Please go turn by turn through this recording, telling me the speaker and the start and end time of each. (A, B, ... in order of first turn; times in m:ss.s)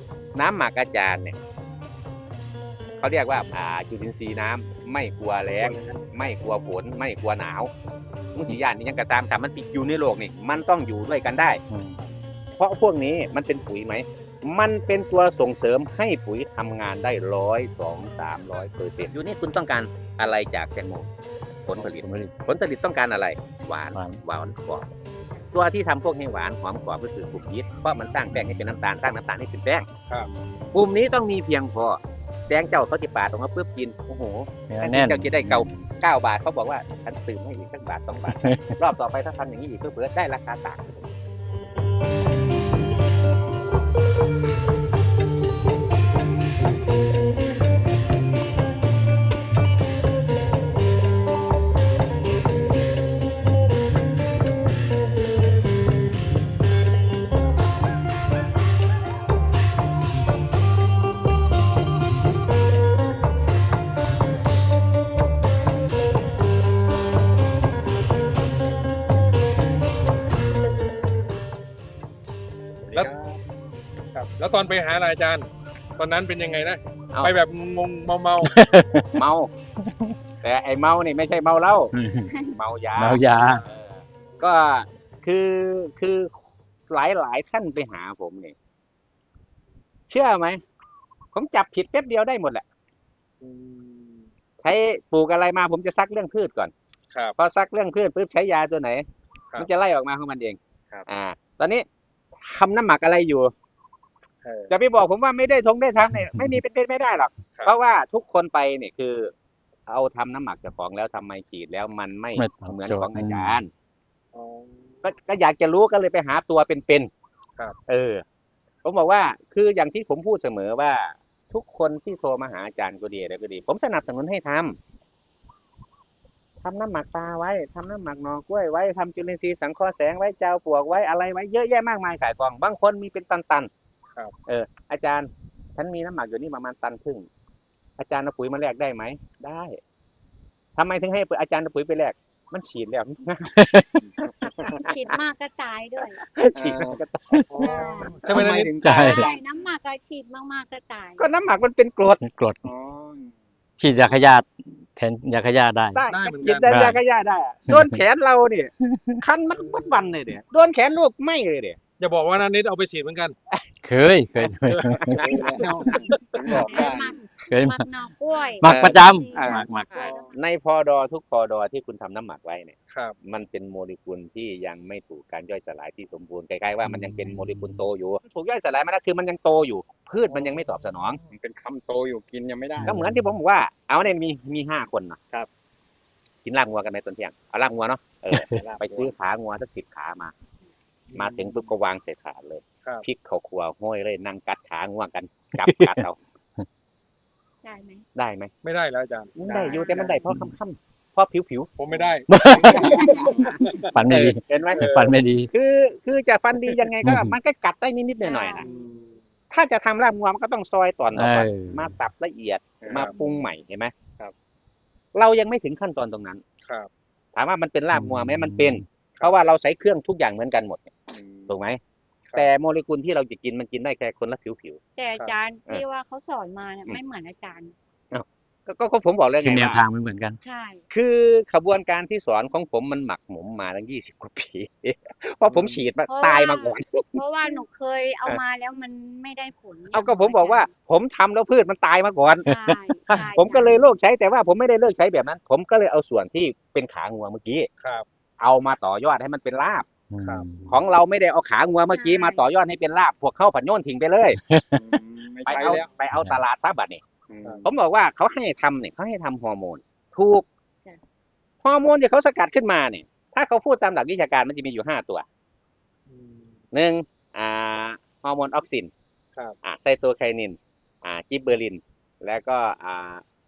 0:00.3-0:01.4 A
0:03.0-0:07.7 A
0:05.6-0:06.0 B
0:08.3-0:11.6 A
0:11.7-0:12.0 C
0:12.6-0:21.1 A
0:21.6-0:24.9 A
0:21.8-0:22.3 C
0:23.9-0:24.2 C
0:25.5-0:29.9 A
0:30.7-0:41.1 A
0:34.7-0:35.7 C
0:38.3-0:38.8 C
1:12.8-1:13.4 D
1:14.1-1:18.6 B
1:18.4-1:19.2 C
1:19.1-1:19.5 A
1:19.8-1:20.1 C
1:20.4-1:21.9 A
1:21.9-1:22.3 C
1:22.3-1:22.6 E
1:22.5-1:26.3 A
1:23.0-1:23.6 C
1:26.9-1:28.5 A
1:30.1-1:30.6 A
1:31.3-1:32.6 A
1:33.4-1:34.2 B
1:34.6-1:36.7 A
1:37.3-1:39.0 A
1:39.6-1:43.5 A
1:44.7-1:49.3 A
1:49.9-1:53.7 A
1:52.4-1:53.6 C
1:54.3-1:54.7 B
1:55.0-1:57.1 A
1:57.9-1:58.2 A
1:58.8-2:04.8 A
2:06.6-2:13.7 A
2:14.5-2:17.3 A
2:18.0-2:19.8 A
2:20.8-2:23.6 A
2:23.5-2:24.0 C
2:24.2-2:25.0 A
2:24.5-2:26.2 E
2:26.3-2:27.5 A
2:26.5-2:27.0 D
2:27.5-2:28.8 B
2:27.5-2:28.2 E
2:27.6-2:28.2 D
2:28.2-2:29.4 A
2:28.8-2:29.3 C
2:28.8-2:31.3 E
2:31.2-2:32.2 A
2:32.2-2:32.6 C
2:32.6-2:33.3 D
2:33.8-2:36.0 C
2:35.9-2:41.8 A
2:36.0-2:36.9 B
2:36.7-2:37.0 C
2:37.7-2:38.0 C
2:39.6-2:40.1 B
2:42.0-2:43.4 B
2:43.8-2:45.2 C
2:44.7-2:46.0 B
2:45.1-2:45.9 A
2:45.1-2:47.2 D
2:46.5-2:46.9 A
2:46.5-2:50.4 E
2:46.5-2:46.8 B
2:47.5-2:47.8 C
2:48.6-2:50.0 C
2:48.6-3:01.2 A
2:50.0-2:50.2 B
2:52.9-2:53.2 B
2:56.8-2:57.8 C
3:00.3-3:03.0 D
3:02.8-3:03.1 C
3:02.9-3:05.2 A
3:06.4-3:10.3 A
3:08.4-3:09.1 D
3:11.1-3:11.4 B
3:11.1-3:16.2 A
3:15.6-3:16.0 C
3:17.6-3:18.0 E
3:18.1-3:18.5 A
3:18.6-3:20.1 B
3:19.4-3:21.7 A
3:19.5-3:20.0 D
3:19.6-3:20.2 E
3:21.8-3:24.0 B
3:22.3-3:23.0 C
3:22.4-3:24.9 A
3:22.5-3:23.8 E
3:22.6-3:23.7 D
3:23.9-3:25.5 C
3:24.7-3:25.1 B
3:25.5-3:28.7 A
3:27.0-3:27.3 C
3:28.2-3:28.6 E
3:28.6-3:29.1 B
3:29.5-3:33.9 A
3:31.1-3:31.9 C
3:32.8-3:33.1 D
3:35.1-3:36.4 A
3:37.3-3:40.9 A
3:37.9-3:38.8 C
3:41.1-3:41.5 D
3:41.5-3:41.8 A
3:42.3-3:44.8 A
3:45.0-3:47.7 E
3:48.1-3:49.8 A
3:49.4-3:50.4 C
3:50.4-3:50.8 E
3:50.9-3:57.6 A
3:56.1-4:00.7 E
3:59.9-4:02.5 A
4:02.4-4:03.9 E
4:03.1-4:07.7 A
4:08.4-4:09.8 A
4:10.1-4:10.7 C
4:10.6-4:14.4 A
4:11.8-4:12.4 E
4:14.5-4:14.8 C
4:14.7-4:15.9 D
4:15.4-4:17.0 A
4:16.1-4:16.4 C
4:17.3-4:17.7 D
4:17.6-4:20.4 A
4:21.6-4:25.2 A
4:26.1-4:26.5 B
4:26.7-4:28.9 A
4:29.6-4:33.2 A